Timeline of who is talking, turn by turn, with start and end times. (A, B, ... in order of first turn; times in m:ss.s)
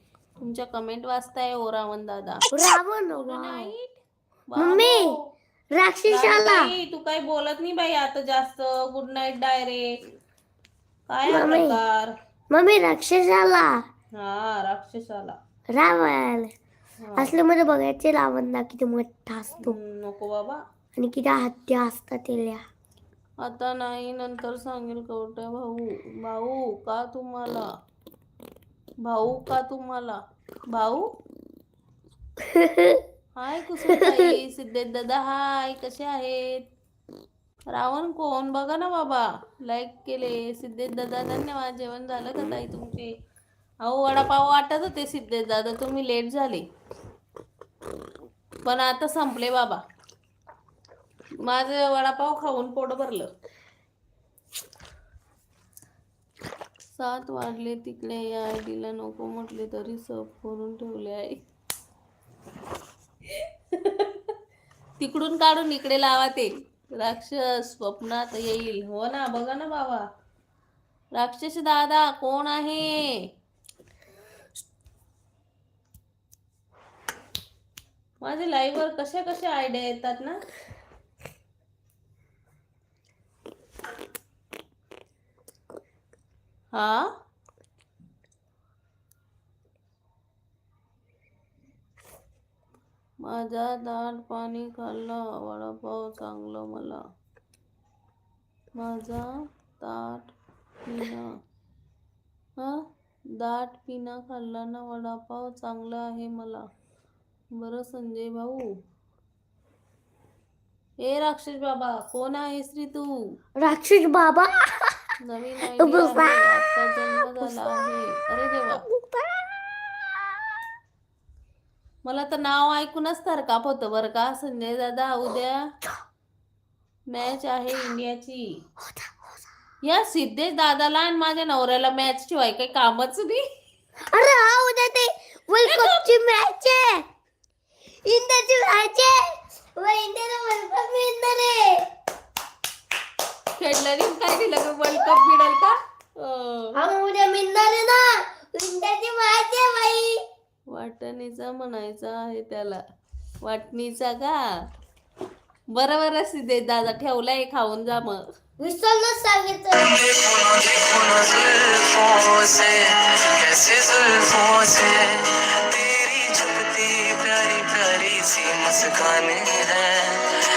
0:00.4-0:02.5 A
0:02.5-0:03.7 B
0:03.1-0:05.2 A
0:04.6-0:05.1 B
0:05.7-0:06.7 B
0:06.1-0:09.9 A
0:11.1-0:12.1 A
0:11.3-0:11.8 B
0:12.5-0:13.8 B
0:14.1-0:15.4 A
0:15.7-0:16.5 B
0:17.0-0:17.3 A
0:17.2-0:19.8 B
0:19.6-0:20.6 A
0:21.0-0:22.6 B
0:23.4-0:27.6 A
0:29.0-0:30.2 A
0:30.7-0:31.1 A
0:32.4-0:33.0 B
0:33.4-0:36.6 A
0:33.9-0:34.3 B
0:37.7-0:43.1 A
0:43.8-0:46.6 A
0:48.6-0:49.8 A
0:51.4-0:53.3 A
0:56.9-1:01.4 A
1:03.3-1:04.3 A
1:05.0-1:10.0 A
1:11.1-1:13.0 A
1:18.2-1:20.4 A
1:26.7-1:27.1 A
1:33.2-1:37.0 A
1:38.8-1:39.3 A
1:39.8-1:40.3 A
1:40.8-1:41.3 A
1:42.6-1:42.8 A
1:43.4-1:46.6 A
1:47.5-1:48.6 A
1:51.0-1:53.1 A
1:53.6-1:55.0 B
1:55.2-1:58.9 A
1:55.8-1:56.4 B
1:57.4-1:57.8 B
2:02.0-2:05.6 A
2:07.1-2:08.4 A
2:08.8-2:09.4 B
2:09.8-2:13.4 A
2:14.1-2:17.0 B
2:15.6-2:16.1 A
2:18.0-2:21.9 B
2:23.6-2:26.8 A
2:26.7-2:30.2 B
2:30.7-2:32.8 A
2:33.4-2:34.4 A
2:35.7-2:38.2 A
2:38.6-2:39.9 B
2:39.7-2:50.3 C